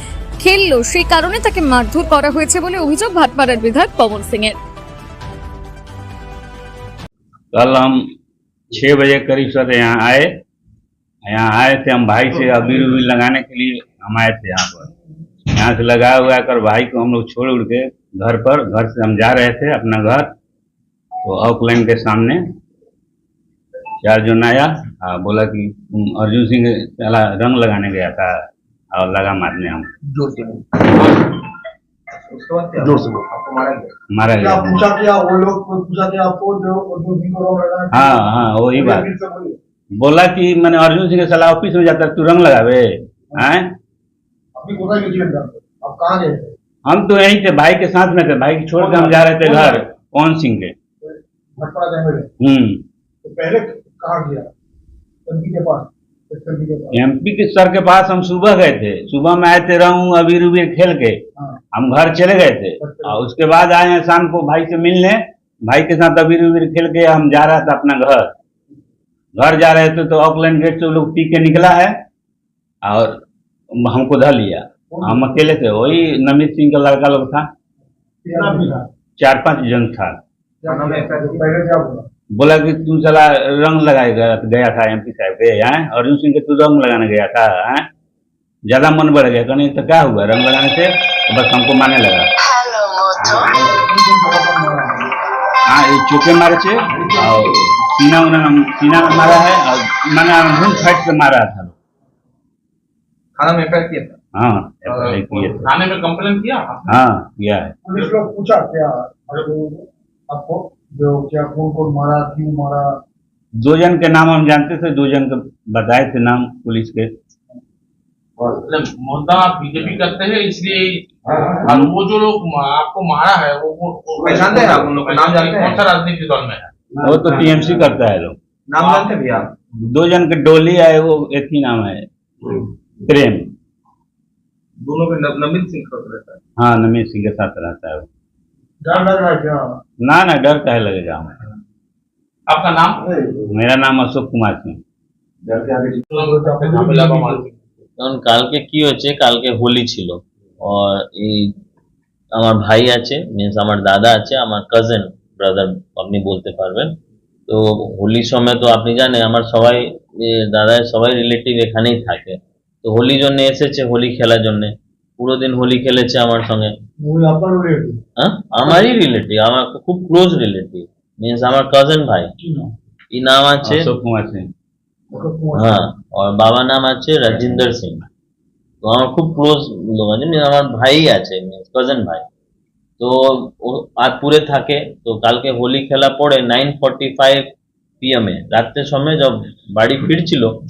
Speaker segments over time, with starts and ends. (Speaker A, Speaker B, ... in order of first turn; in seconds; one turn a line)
Speaker A: 0.4-4.6
Speaker B: 7.5-8.0
Speaker B: 8.7-10.3
Speaker B: 11.3-14.9
Speaker B: 15.6-20.3
Speaker B: 21.2-22.4
Speaker B: 24.0-28.4
Speaker B: 28.9-29.9
Speaker C: 32.3-33.9
Speaker B: 34.1-34.9
Speaker D: 34.4-39.6
Speaker B: 37.9-39.1
Speaker B: 40.0-43.7
Speaker D: 44.6-46.5
Speaker B: 46.9-50.7
Speaker D: 48.8-49.8
Speaker D: 51.0-52.3
Speaker B: 52.4-52.8
Speaker D: 53.2-54.5
Speaker D: 55.3-57.0
Speaker B: 56.9-61.2
Speaker B: 61.7-68.3
Speaker D: 62.8-63.3
Speaker B: 69.4-72.0
Speaker B: 72.8-73.2
Speaker B: 73.8-77.5
Speaker D: 74.9-75.6
Speaker D: 78.2-78.9
Speaker B: 79.2-80.2
Speaker D: 80.6-82.0
Speaker C: 80.7-81.4
Speaker B: 82.3-87.9
Speaker B: 88.7-92.3
Speaker B: 93.2-93.5
Speaker D: 93.5-95.1
Speaker B: 95.7-101.7
Speaker C: 96.9-97.7
Speaker C: 103.4-104.2
Speaker B: 104.3-105.7
Speaker E: 104.9-107.0
Speaker B: 106.9-107.8
Speaker D: 107.8-113.0
Speaker B: 113.6-117.1
Speaker E: 118.7-126.7
Speaker C: 121.2-121.8
Speaker B: 121.7-121.9
Speaker C: 124.2-125.9
Speaker C: 127.0-127.7
Speaker B: 127.0-128.4
Speaker C: 128.7-129.6
Speaker E: 128.8-129.1
Speaker B: 129.9-133.5
Speaker C: 134.8-136.4
Speaker B: 136.6-138.1
Speaker D: 138.8-139.6
Speaker B: 140.0-141.4
Speaker E: 142.5-143.1
Speaker B: 143.5-144.8
Speaker D: 146.0-147.5
Speaker E: 146.1-147.6
Speaker F: 148.0-151.5
Speaker F: 152.3-156.9
Speaker F: 157.5-166.7
Speaker D: 167.0-168.0
Speaker F: 168.2-172.3
Speaker D: 168.6-168.9
Speaker D: 172.4-172.7
Speaker F: 173.1-173.9
Speaker B: 173.6-174.5
Speaker D: 175.1-175.9
Speaker F: 175.6-178.0
Speaker F: 178.8-182.2
Speaker F: 183.0-187.5
Speaker F: 188.0-190.5